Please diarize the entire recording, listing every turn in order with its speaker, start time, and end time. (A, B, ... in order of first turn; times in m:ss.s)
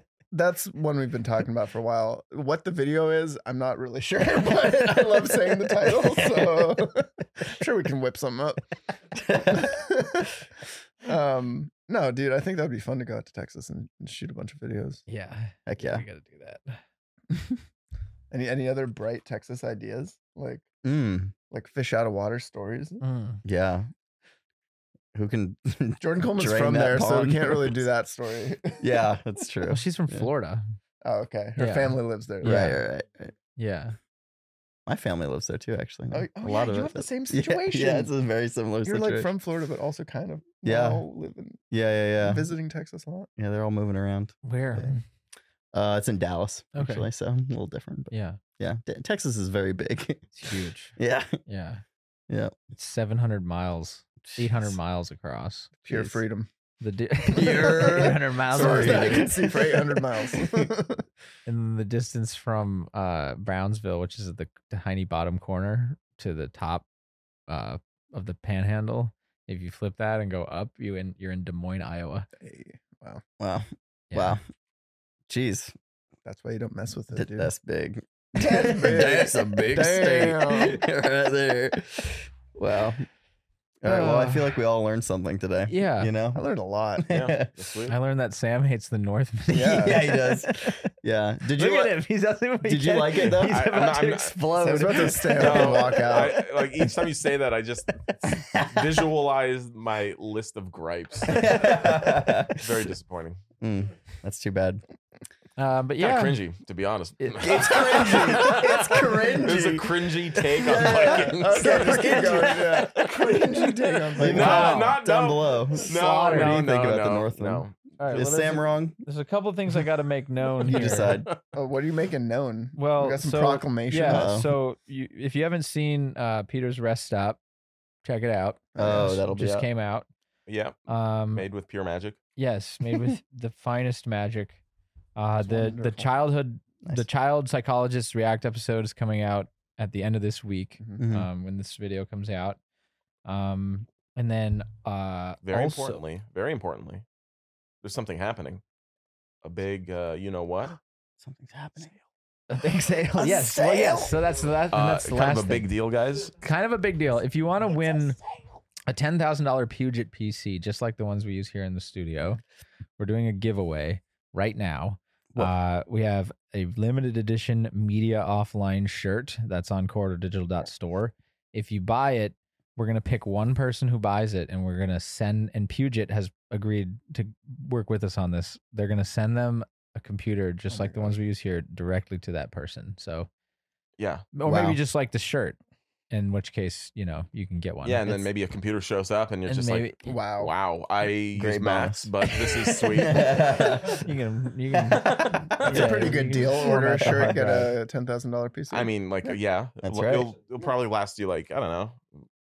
0:00.3-0:08.6 A
0:05.9-0:06.8 B
0:09.2-0:09.6 B
0:09.4-0:10.3 A
0:11.0-0:15.0 A
0:15.1-0:16.8 C
0:15.7-0:16.0 B
0:18.3-0:20.6 A
0:20.8-0:21.3 B
0:21.5-0:23.0 A
0:23.0-0:23.4 C
0:23.4-0:23.9 B
0:25.1-0:27.8 B
0:26.0-0:29.1 A
0:28.8-0:30.3 B
0:29.7-0:30.6 C
0:31.0-0:32.8 A
0:31.6-0:32.8 C
0:32.4-0:33.3 B
0:33.6-0:34.0 C
0:34.9-0:39.3 B
0:36.1-0:38.1 A
0:38.8-0:41.6 A
0:40.6-0:41.0 B
0:41.7-0:42.5 B
0:42.2-0:43.3 A
0:43.4-0:44.4 B
0:44.4-0:45.0 C
0:45.7-0:50.4 B
0:46.7-0:47.1 C
0:48.1-0:48.4 C
0:50.3-0:51.0 C
0:51.0-0:51.4 B
0:51.5-0:51.8 C
0:52.3-0:52.6 B
0:52.7-0:55.8 C
0:54.3-0:54.8 B
0:55.9-0:56.5 A
0:55.9-0:56.1 B
0:56.8-0:59.3 C
0:57.3-1:01.0 A
0:57.3-1:00.7 B
1:01.5-1:06.8 C
1:07.5-1:12.3 C
1:12.4-1:13.2 A
1:13.4-1:14.4 B
1:14.1-1:14.4 C
1:15.3-1:15.7 B
1:16.3-1:17.5 A
1:17.1-1:23.0 B
1:18.4-1:20.8 A
1:23.8-1:26.4 B
1:23.8-1:24.6 C
1:25.7-1:26.2 C
1:26.3-1:27.0 A
1:27.0-1:27.5 B
1:27.1-1:28.0 D
1:27.9-1:30.9 C
1:29.5-1:31.9 B
1:29.5-1:30.0 A
1:31.5-1:36.2 C
1:32.6-1:33.6 B
1:33.4-1:41.9 D
1:34.6-1:36.4 A
1:38.5-1:38.9 B
1:41.3-1:42.8 B
1:42.5-1:43.4 D
1:43.6-1:44.8 B
1:45.6-1:46.4 C
1:46.0-1:58.3 D
1:47.2-1:48.4 C
1:47.4-1:49.9 B
1:47.6-1:49.5 A
1:50.6-1:54.8 A
1:50.6-1:52.8 B
1:54.2-1:59.0 B
1:54.4-1:54.8 C
1:55.9-1:56.6 C
1:58.0-2:01.2 C
2:00.6-2:01.3 B
2:01.5-2:04.4 A
2:02.8-2:07.4 C
2:04.0-2:04.5 B
2:08.0-2:10.1 C
2:08.7-2:09.2 A
2:08.8-2:09.7 B
2:10.5-2:12.2 D
2:10.9-2:11.5 C
2:12.4-2:14.6 C
2:15.2-2:22.6 C
2:15.4-2:16.1 A
2:21.0-2:21.3 B
2:23.2-2:26.0 C
2:25.4-2:27.0 D
2:27.8-2:28.6 D
2:29.4-2:30.8 D
2:31.2-2:31.9 B
2:32.5-2:35.7 C
2:32.6-2:34.1 B
2:34.7-2:36.4 D
2:36.4-2:38.2 C
2:38.9-2:42.4 C
2:43.0-3:03.3 C
3:00.7-3:01.1 A
3:04.0-3:04.3 D
3:04.3-3:05.6 C
3:04.4-3:04.8 B
3:06.1-3:08.3 C
3:07.8-3:13.7 D
3:09.5-3:10.2 C
3:10.1-3:10.5 A
3:11.4-3:14.1 B
3:13.9-3:17.7 C
3:14.8-3:16.0 D
3:15.6-3:19.4 A
3:15.7-3:17.7 B
3:18.7-3:22.3 D
3:19.8-3:20.3 B